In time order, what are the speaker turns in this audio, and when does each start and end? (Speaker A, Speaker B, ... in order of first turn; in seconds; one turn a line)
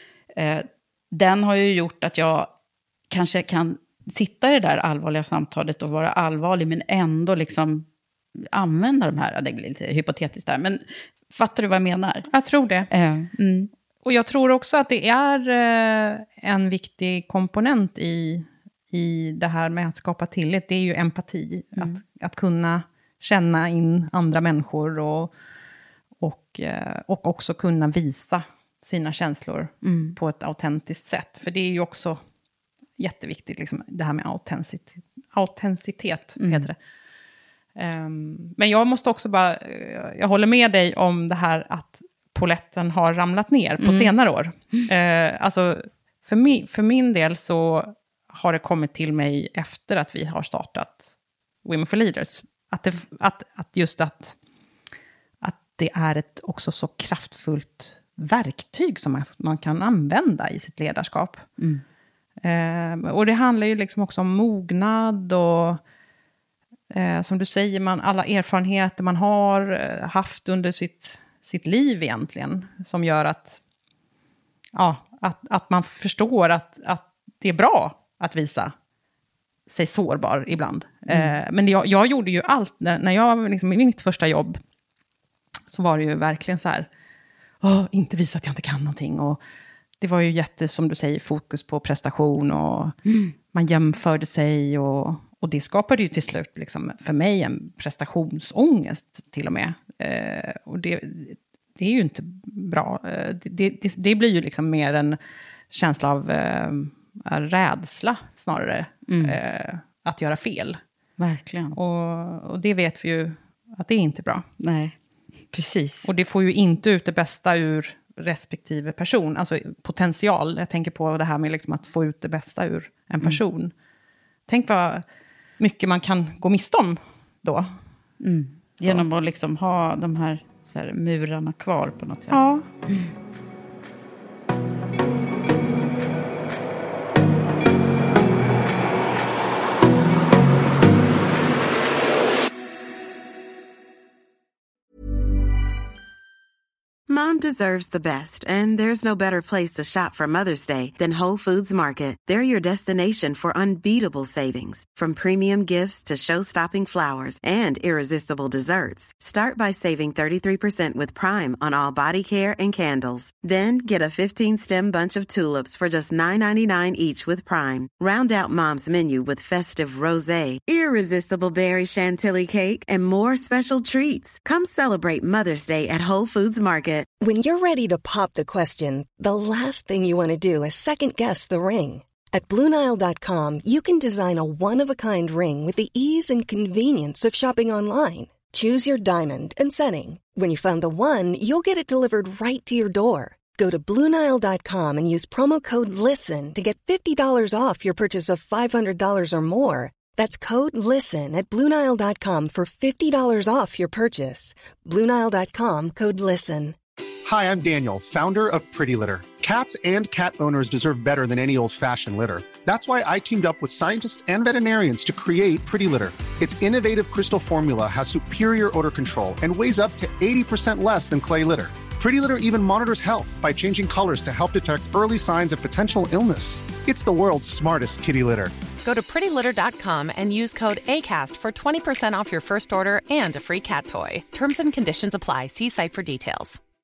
Speaker A: 0.3-2.5
Speaker A: 3.1-12.3
Speaker B: 12.3-12.9
Speaker A: 12.9-13.7
Speaker B: 14.0-25.3
Speaker B: 26.2-32.2
Speaker A: 29.8-30.1
Speaker B: 33.0-36.8
Speaker A: 36.4-36.7
Speaker B: 37.8-54.3
Speaker A: 43.8-44.1
Speaker B: 55.4-61.5
Speaker B: 62.4-65.8
Speaker B: 66.9-73.6
Speaker B: 74.7-78.7
Speaker B: 79.7-84.6
Speaker A: 81.1-81.4
Speaker B: 85.7-86.9
Speaker B: 87.6-89.4
Speaker B: 90.0-93.0
Speaker B: 93.5-105.2
Speaker B: 105.7-110.8
Speaker A: 109.1-109.4
Speaker A: 111.2-111.8
Speaker B: 111.7-114.4
Speaker A: 114.6-115.0
Speaker A: 115.5-116.1
Speaker B: 116.0-123.7
Speaker B: 124.5-125.0
Speaker B: 125.6-127.8
Speaker A: 128.2-133.1
Speaker B: 132.3-132.6
Speaker C: 147.1-177.1
Speaker D: 177.2-206.8
Speaker E: 207.2-228.5
Speaker F: 228.8-236.6